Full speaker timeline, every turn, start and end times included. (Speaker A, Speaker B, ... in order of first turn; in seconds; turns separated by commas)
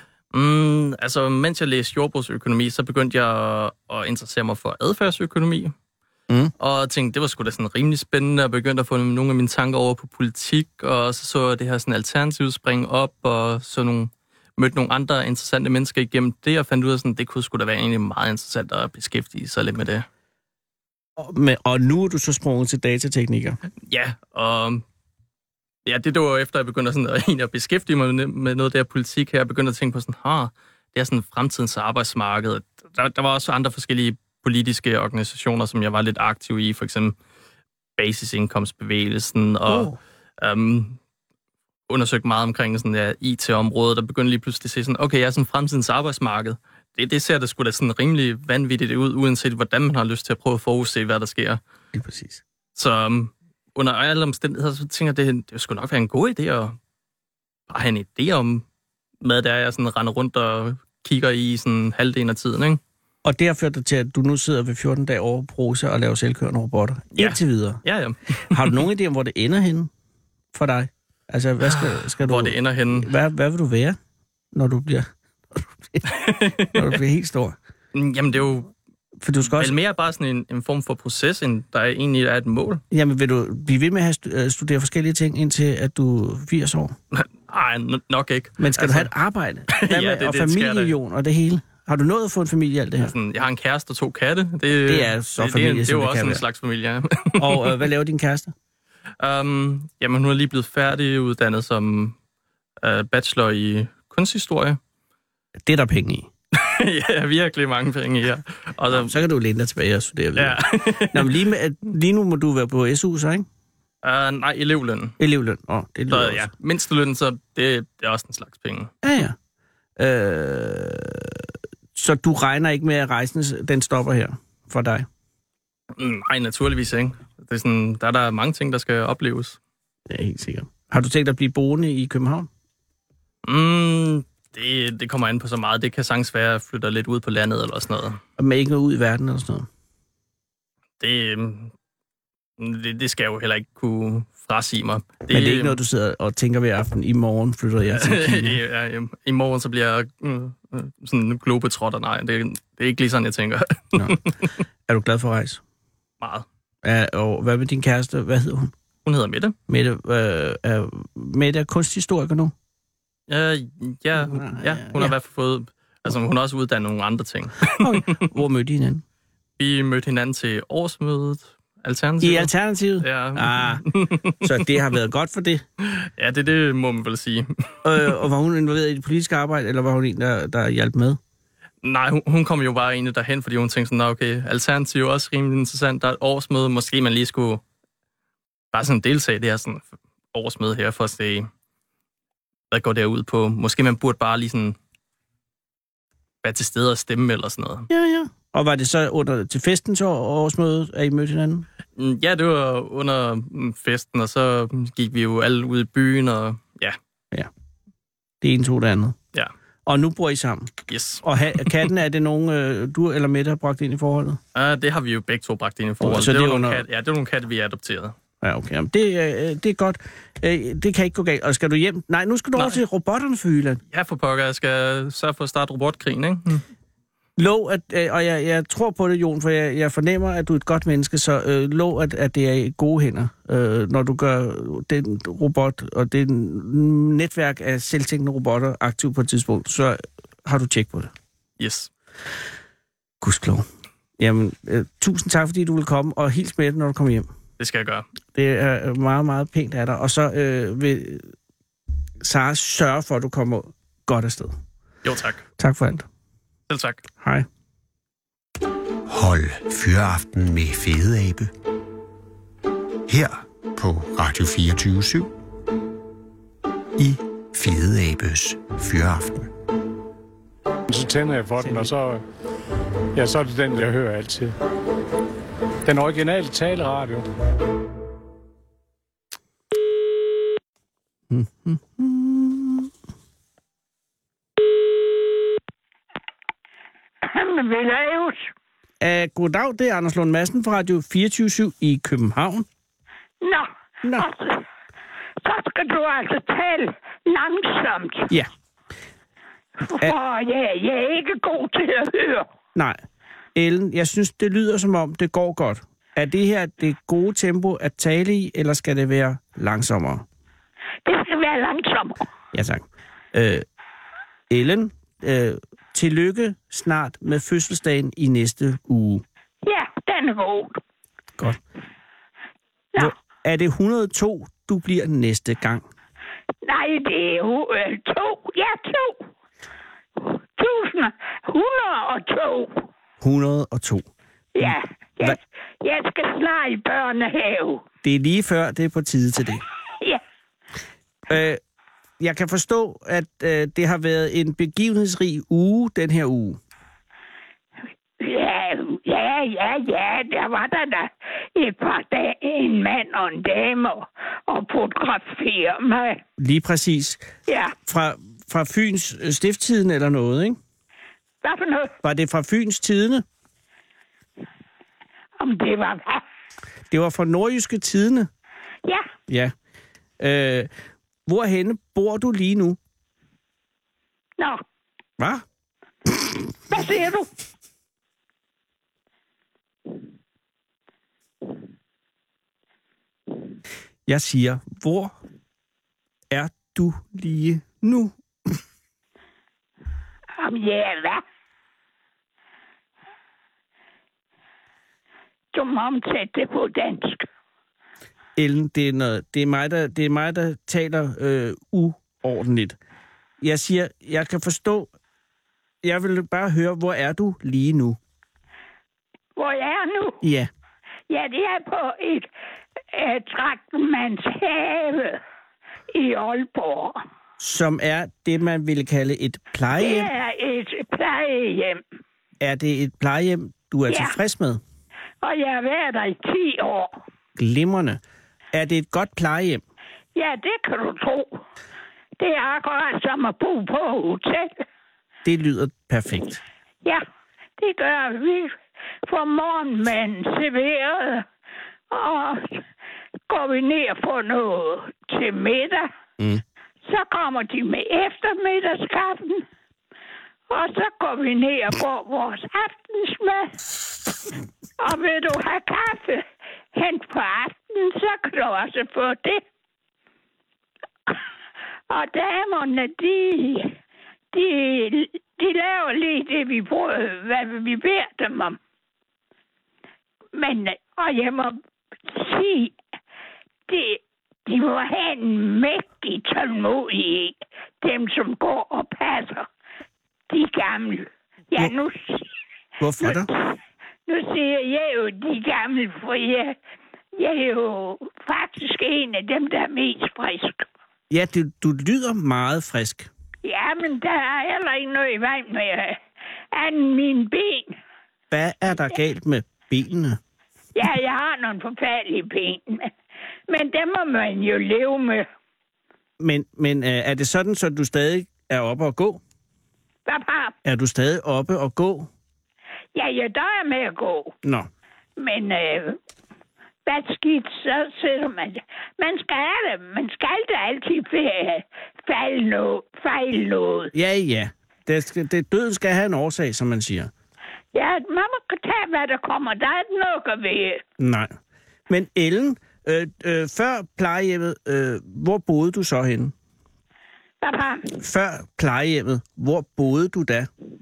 Speaker A: 0.3-5.7, Speaker A: 6.6-20.1, Speaker B: 21.2-23.6, Speaker A: 23.9-24.8, Speaker A: 25.9-37.1, Speaker A: 38.0-41.0, Speaker B: 39.7-40.0, Speaker A: 41.9-51.6, Speaker B: 51.9-52.4, Speaker A: 52.8-56.8, Speaker A: 57.7-58.6, Speaker A: 59.2-62.8, Speaker B: 63.2-67.8, Speaker A: 67.2-68.8, Speaker B: 68.5-69.9, Speaker B: 70.5-74.0, Speaker A: 71.6-73.1, Speaker B: 74.5-76.1, Speaker A: 76.1-76.8, Speaker B: 76.7-77.6, Speaker A: 77.9-78.7, Speaker B: 79.2-79.8, Speaker A: 79.4-82.8, Speaker B: 82.9-87.0, Speaker A: 87.1-89.1, Speaker B: 88.6-93.1, Speaker A: 89.7-91.0, Speaker A: 93.0-97.8, Speaker B: 94.9-96.4, Speaker B: 97.4-98.5, Speaker A: 99.2-102.2, Speaker A: 102.8-104.8, Speaker B: 105.7-106.3, Speaker A: 106.5-109.2, Speaker B: 108.9-113.5, Speaker A: 110.4-111.4, Speaker A: 114.0-115.2, Speaker B: 115.2-116.5, Speaker A: 116.1-118.9, Speaker B: 119.0-119.3, Speaker B: 120.0-125.1, Speaker A: 126.0-129.6, Speaker B: 130.1-132.5, Speaker A: 133.4-138.2, Speaker B: 138.4-139.7, Speaker A: 141.0-141.7, Speaker A: 142.6-145.8, Speaker B: 145.3-148.6, Speaker A: 147.9-154.5, Speaker B: 154.9-155.6, Speaker A: 156.2-156.5, Speaker B: 156.8-158.7, Speaker A: 159.1-159.6, Speaker B: 159.7-162.5, Speaker A: 163.3-168.2, Speaker B: 164.2-165.1, Speaker B: 167.8-169.0, Speaker A: 169.6-174.7, Speaker B: 172.2-173.8, Speaker B: 174.4-175.6, Speaker A: 175.8-178.1, Speaker B: 177.8-181.2, Speaker A: 181.8-187.6, Speaker A: 188.7-191.5, Speaker A: 192.7-194.8, Speaker A: 196.4-197.9, Speaker B: 197.9-201.7, Speaker A: 202.0-207.0, Speaker B: 208.4-209.2, Speaker B: 209.9-214.4, Speaker A: 210.9-211.8, Speaker A: 214.5-218.2, Speaker B: 216.0-216.8, Speaker B: 218.4-223.8, Speaker A: 223.9-226.6, Speaker B: 227.4-241.1, Speaker A: 241.6-241.9, Speaker B: 243.2-243.7, Speaker B: 244.2-247.3, Speaker A: 247.6-248.1, Speaker B: 248.3-251.3, Speaker B: 252.2-254.6, Speaker A: 255.0-255.4, Speaker B: 255.6-256.1, Speaker A: 256.7-257.1, Speaker B: 257.2-257.5, Speaker C: 259.1-261.5, Speaker C: 263.1-265.3, Speaker C: 267.0-269.5, Speaker D: 270.9-272.2, Speaker B: 271.6-271.9, Speaker D: 273.1-274.5, Speaker D: 275.9-277.2, Speaker B: 281.3-282.9, Speaker E: 287.2-288.5, Speaker B: 289.0-292.7, Speaker E: 293.4-294.6, Speaker E: 295.4-298.3, Speaker E: 299.8-302.5, Speaker B: 303.6-310.2, Speaker E: 311.1-312.2, Speaker B: 312.5-313.6, Speaker B: 314.5-319.2, Speaker E: 319.6-320.8, Speaker B: 323.0-325.8, Speaker E: 326.6-329.3, Speaker E: 330.2-332.9, Speaker B: 333.2-334.1, Speaker E: 334.6-337.9, Speaker B: 334.6-335.4, Speaker B: 338.0-339.6, Speaker B: 341.3-341.6, Speaker B: 342.2-346.6, Speaker E: 348.2-356.2, Speaker B: 356.4-357.2, Speaker E: 357.5-357.8, Speaker B: 357.9-360.6, Speaker E: 361.4-361.9, Speaker B: 362.0-363.2, Speaker E: 365.4-366.2, Speaker B: 366.9-368.3, Speaker B: 369.3-369.5, Speaker B: 370.2-370.7, Speaker B: 371.3-372.8, Speaker E: 376.7-377.3, Speaker B: 384.1-385.1, Speaker B: 386.3-388.6, Speaker E: 390.4-391.2, Speaker E: 395.5-397.3, Speaker B: 398.4-402.8, Speaker B: 403.4-404.9, Speaker B: 405.8-408.0, Speaker E: 409.4-410.2, Speaker B: 410.2-410.5, Speaker E: 411.1-412.3, Speaker E: 412.9-415.2, Speaker E: 415.9-417.0, Speaker B: 417.4-420.1, Speaker E: 419.8-421.8, Speaker B: 422.4-424.6, Speaker E: 423.9-424.2, Speaker E: 425.2-427.0, Speaker B: 427.4-428.0, Speaker B: 428.5-429.6, Speaker E: 430.1-431.4, Speaker E: 432.2-434.6, Speaker B: 435.2-436.4, Speaker E: 437.6-441.3, Speaker E: 441.9-442.6, Speaker E: 443.3-445.9, Speaker E: 446.9-449.4, Speaker E: 450.5-453.6, Speaker E: 454.8-459.4, Speaker E: 461.9-463.7, Speaker E: 464.3-468.6, Speaker E: 470.3-472.8, Speaker E: 473.7-479.5, Speaker E: 480.3-482.3, Speaker B: 482.8-483.3, Speaker E: 483.0-483.3, Speaker E: 484.1-486.6, Speaker E: 487.2-490.7, Speaker B: 491.1-493.1, Speaker E: 493.4-496.0, Speaker E: 496.5-497.8, Speaker B: 498.3-500.2, Speaker E: 500.8-502.9, Speaker E: 503.5-505.3, Speaker B: 506.2-509.2, Speaker E: 510.1-510.5, Speaker B: 510.6-512.1, Speaker E: 513.0-514.3, Speaker E: 515.2-516.0, Speaker E: 516.9-523.9, Speaker B: 523.9-527.1, Speaker E: 527.7-530.8, Speaker B: 531.0-531.3, Speaker B: 531.9-536.3, Speaker E: 537.4-537.9, Speaker B: 537.9-540.5